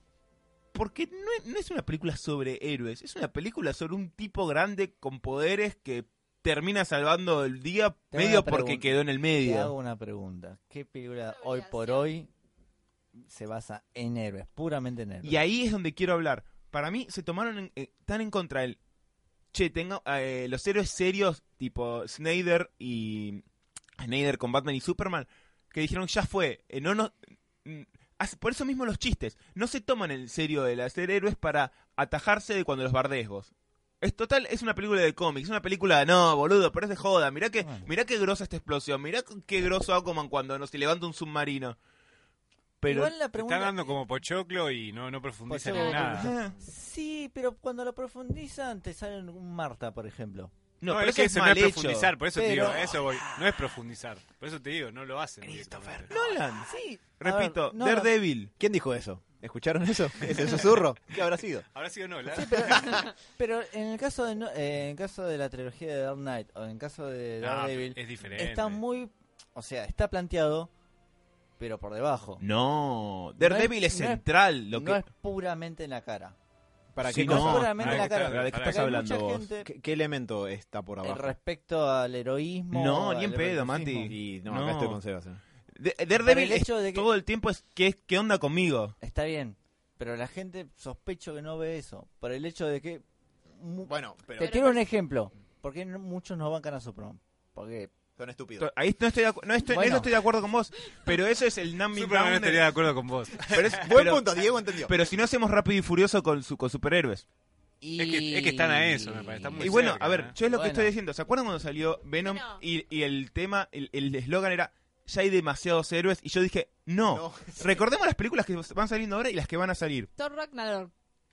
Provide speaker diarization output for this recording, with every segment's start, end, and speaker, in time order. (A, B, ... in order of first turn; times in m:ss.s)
0:00.7-0:09.7 A
0:08.1-0:12.3 B
0:11.3-0:12.1 C
0:13.2-0:15.4 B
0:15.2-0:18.8 A
0:19.5-0:23.4 A
0:24.0-0:41.8 A
0:37.6-0:37.9 B
0:42.8-0:43.1 A
0:42.8-0:43.9 B
0:43.3-0:46.3 D
0:45.5-0:50.5 B
0:45.7-0:46.2 C
0:46.1-0:46.5 A
0:50.8-0:52.2 A
0:50.9-0:56.2 D
0:52.3-0:52.8 B
0:56.1-0:58.5 A
0:57.0-0:58.1 B
0:58.6-1:01.6 E
1:01.7-1:03.0 D
1:02.3-1:10.7 B
1:07.4-1:08.8 D
1:11.6-1:12.4 B
1:12.4-1:15.0 A
1:13.4-1:16.3 B
1:16.9-1:17.7 E
1:17.0-1:19.5 A
1:17.1-1:19.0 D
1:17.1-1:19.7 B
1:19.6-1:21.3 E
1:21.0-1:24.1 B
1:22.7-1:25.0 A
1:24.1-1:25.4 E
1:25.8-1:29.0 A
1:26.2-1:27.1 B
1:29.0-1:33.0 B
1:33.6-1:37.9 B
1:33.8-1:34.5 E
1:34.4-1:34.8 C
1:38.2-1:38.7 E
1:38.6-1:42.7 A
1:39.7-1:40.1 B
1:41.9-1:43.8 D
1:43.5-1:47.2 A
1:43.7-1:44.9 E
1:47.8-1:50.9 B
1:48.0-1:50.3 D
1:49.6-2:00.1 A
1:52.2-1:52.6 C
1:57.0-1:57.8 E
2:00.2-2:00.9 C